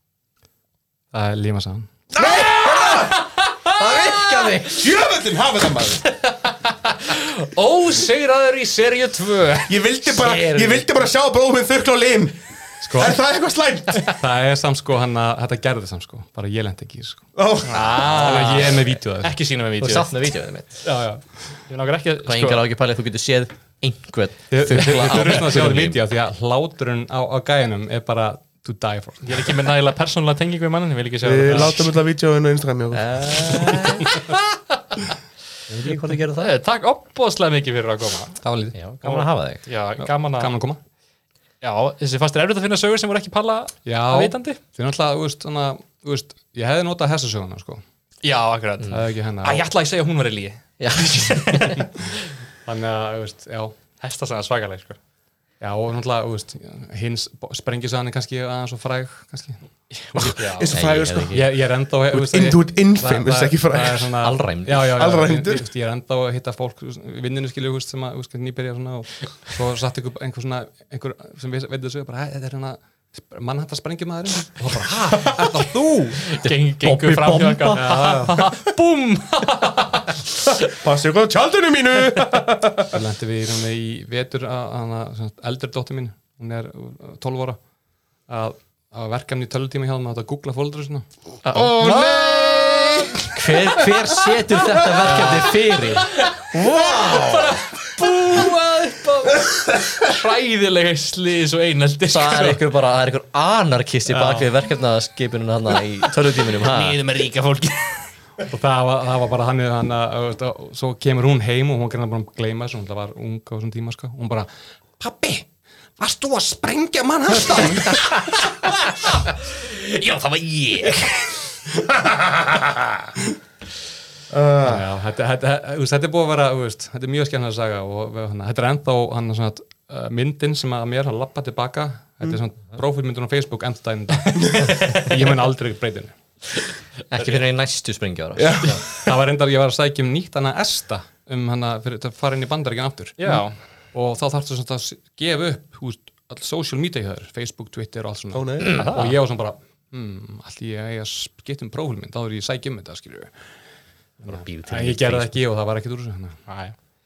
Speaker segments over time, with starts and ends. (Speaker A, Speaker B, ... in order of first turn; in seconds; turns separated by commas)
Speaker A: 1.1-1.9, Speaker B: 2.1-3.1, Speaker C: 2.2-3.1, Speaker D: 3.2-4.6, Speaker C: 3.8-4.8, Speaker B: 4.7-6.0, Speaker D: 6.4-10.9, Speaker B: 9.7-14.1, Speaker A: 12.8-13.2, Speaker A: 14.1-17.3, Speaker B: 17.4-18.0, Speaker D: 17.7-20.1, Speaker A: 17.9-19.3, Speaker C: 19.8-20.8, Speaker A: 20.8-21.2, Speaker D: 21.7-22.6, Speaker C: 22.2-26.0, Speaker A: 24.5-29.5, Speaker D: 24.7-25.8, Speaker D: 29.2-31.9, Speaker B: 31.2-33.4, Speaker C: 32.9-34.1, Speaker D: 34.1-34.4, Speaker C: 35.7-36.5, Speaker D: 36.4-38.5, Speaker A: 38.4-38.7, Speaker C: 38.7-39.6, Speaker D: 39.0-40.5, Speaker A: 40.0-40.8, Speaker D: 41.6-44.6, Speaker A: 43.9-47.8, Speaker D: 48.2-52.1, Speaker A: 48.9-49.7, Speaker C: 50.8-51.9, Speaker A: 52.6-53.8, Speaker D: 54.0-55.0, Speaker A: 55.6-60.3, Speaker B: 60.2-61.5, Speaker D: 60.3-60.8, Speaker C: 60.7-61.5, Speaker A: 61.3-76.3, Speaker B: 62.1-64.1, Speaker C: 64.2-65.0, Speaker B: 65.0-65.7, Speaker D: 76.2-80.2, Speaker C: 76.4-78.3, Speaker A: 77.7-78.6, Speaker B: 80.7-83.0, Speaker A: 82.9-87.6, Speaker A: 88.3-91.1, Speaker C: 91.4-91.7, Speaker B: 91.5-93.3, Speaker D: 91.8-93.3, Speaker C: 93.3-97.6, Speaker D: 95.0-102.6, Speaker A: 95.1-95.5, Speaker C: 102.1-107.0, Speaker D: 104.1-104.5, Speaker D: 106.3-108.1, Speaker A: 108.5-115.5, Speaker A: 116.0-118.6, Speaker D: 119.3-121.5, Speaker B: 124.3-124.8, Speaker A: 124.6-136.2, Speaker D: 134.6-135.1, Speaker C: 137.1-138.8, Speaker B: 138.4-138.8, Speaker A: 138.9-143.4, Speaker D: 143.2-143.6, Speaker A: 143.9-153.3, Speaker B: 148.3-148.8, Speaker C: 148.7-148.9, Speaker D: 148.7-149.2, Speaker A: 154.2-156.4, Speaker C: 154.2-155.3, Speaker D: 156.5-156.8